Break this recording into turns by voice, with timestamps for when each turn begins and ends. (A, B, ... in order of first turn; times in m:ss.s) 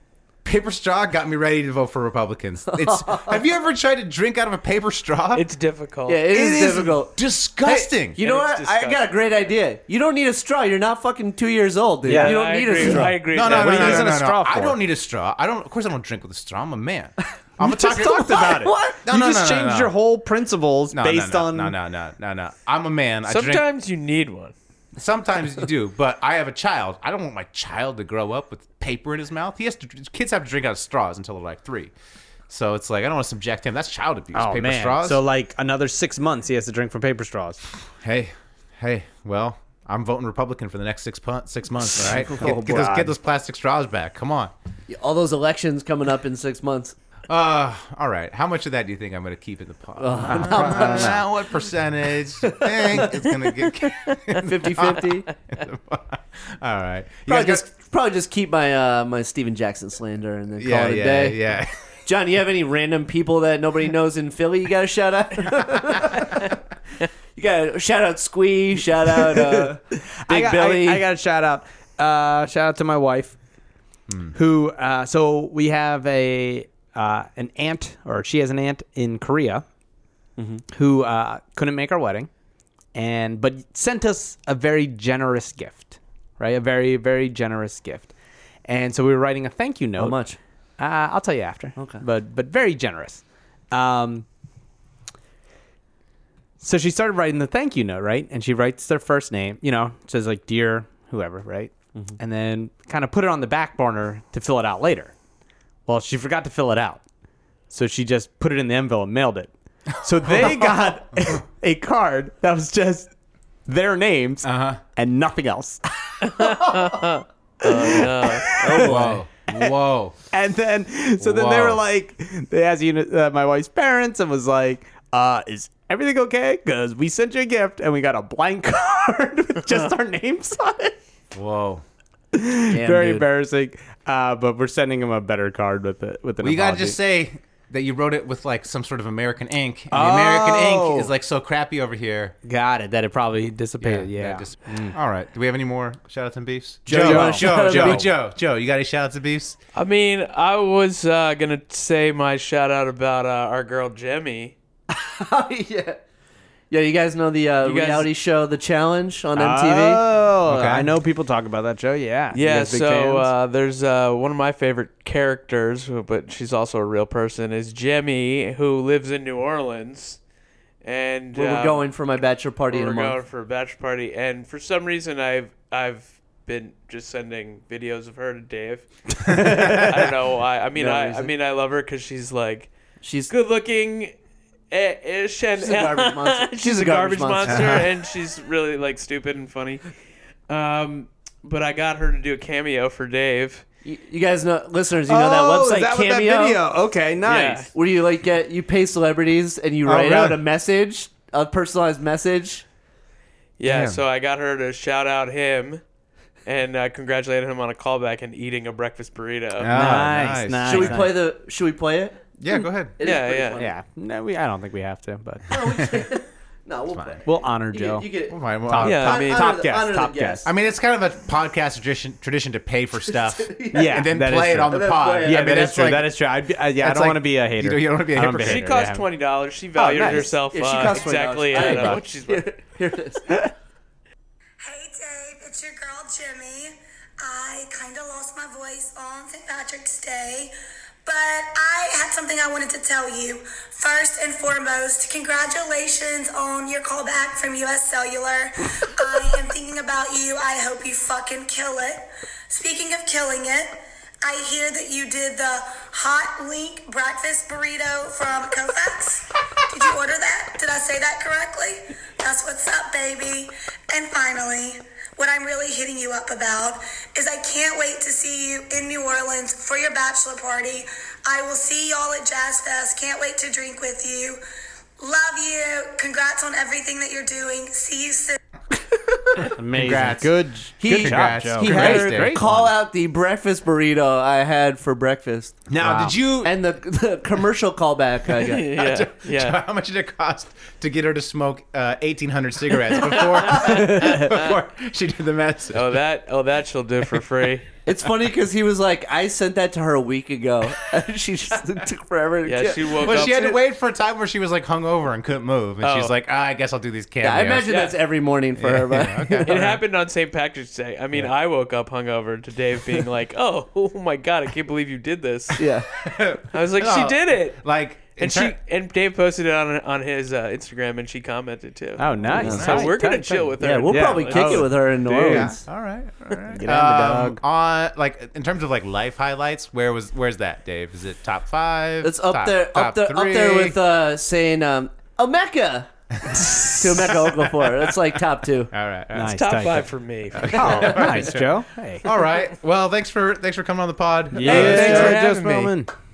0:00.4-0:05.4 A
0:02.7-0:03.4 B
0:05.3-0:06.3 C
0:06.1-0:13.2 B
0:06.3-0:08.2 A
0:08.2-0:09.1 C
0:12.0-0:14.8 D
0:12.1-0:14.1 C
0:13.3-0:19.9 A
0:17.6-0:21.8 D
0:17.6-0:19.0 B
0:20.9-0:23.6 A
0:23.3-0:24.5 C
0:25.0-0:31.9 A
0:32.5-0:35.2 A
0:34.3-0:37.6 D
0:38.0-0:44.5 A
0:42.0-0:43.0 B
0:42.3-0:43.2 D
0:44.9-0:47.0 B
0:47.3-0:57.7 A
0:50.0-0:51.2 B
0:50.2-0:51.3 D
0:52.5-0:53.7 B
0:54.4-0:55.3 B
0:57.3-1:01.4 B
1:00.6-1:01.7 A
1:02.1-1:06.5 B
1:07.4-1:11.0 B
1:09.2-1:13.4 D
1:14.1-1:14.4 A
1:14.3-1:19.6 D
1:20.4-1:20.6 B
1:20.7-1:22.3 D
1:23.0-1:28.1 D
1:28.7-1:30.2 D
1:30.0-1:30.4 B
1:30.8-1:34.3 D
1:31.8-1:32.0 B
1:36.6-1:45.1 D
1:45.9-1:47.0 D
1:47.7-1:53.1 D
1:50.2-1:51.4 A
1:53.7-1:56.5 D
1:54.4-1:54.8 A
1:56.2-1:58.6 C
1:57.6-1:59.7 D
1:58.6-1:59.2 B
1:58.8-2:00.2 A
2:00.3-2:11.0 D
2:01.2-2:01.8 A
2:11.3-2:11.8 A
2:12.3-2:17.0 D
2:12.7-2:13.3 B
2:16.4-2:22.4 A
2:19.9-2:21.1 D
2:22.4-2:25.0 D
2:23.8-2:29.6 A
2:26.9-2:28.1 B
2:26.9-2:28.1 D
2:29.8-2:34.5 C
2:34.9-2:36.0 B
2:36.7-2:40.0 B
2:37.6-2:38.1 C
2:39.4-2:43.3 D
2:40.5-2:40.9 A
2:42.3-2:50.2 C
2:50.8-2:52.0 C
2:51.4-2:53.2 B
2:52.7-3:02.7 C
2:59.3-2:59.8 D
2:59.5-2:59.8 A
3:00.8-3:01.3 B
3:03.0-3:03.3 B
3:03.3-3:04.1 C
3:04.7-3:09.8 C
3:05.6-3:07.8 B
3:07.5-3:07.9 A
3:10.5-3:13.6 C
3:13.8-3:16.6 B
3:15.1-3:17.7 D
3:17.2-3:22.6 B
3:17.3-3:17.7 C
3:19.9-3:20.4 A
3:23.6-3:25.8 C
3:23.6-3:24.0 A
3:26.5-3:29.7 C
3:29.6-3:31.1 A
3:29.6-3:31.2 D
3:30.6-3:32.2 B
3:32.4-3:33.0 A
3:33.0-3:33.7 B
3:33.0-3:33.6 C
3:33.6-3:35.5 D
3:35.5-3:40.5 B
3:35.7-3:36.0 A
3:36.9-3:37.2 A
3:37.2-3:38.1 D
3:38.3-3:46.3 A
3:38.7-3:40.5 D
3:38.8-3:39.5 C
3:43.1-3:44.1 B
3:43.7-3:49.1 D
3:44.7-3:45.6 B
3:46.8-3:48.7 A
3:48.3-3:52.5 C
3:49.8-3:53.3 B
3:51.5-3:52.0 D
3:54.6-4:00.5 E
4:01.0-4:34.4 E
4:35.0-4:38.4 E
4:39.5-4:42.7 A
4:39.5-4:42.4 D
4:40.8-4:45.6 B
4:45.7-4:46.6 A
4:45.8-4:46.2 D
4:46.4-4:48.7 B
4:48.4-4:49.6 C
4:48.7-4:56.0 A
4:53.1-4:54.5 C
4:55.7-4:57.7 C
4:57.9-5:03.6 B
5:02.4-5:03.6 C
5:03.0-5:07.7 A
5:05.8-5:06.1 C
5:07.2-5:09.5 B
5:07.7-5:08.0 C
5:08.6-5:09.8 A
5:09.4-5:15.6 C
5:15.6-5:15.9 B
5:16.0-5:18.6 A
5:16.5-5:17.6 C
5:18.2-5:24.7 C
5:22.0-5:25.6 D
5:22.4-5:22.7 B
5:22.5-5:22.9 A
5:23.6-5:25.6 B
5:25.2-5:33.8 A
5:26.5-5:27.4 D
5:32.0-5:38.7 B
5:36.3-5:37.5 A
5:38.7-5:39.4 A
5:39.1-5:39.9 D
5:39.3-5:40.9 C
5:40.3-5:41.5 A
5:40.5-5:42.1 D
5:42.0-5:45.7 A
5:44.3-5:45.9 D
5:44.4-5:45.7 C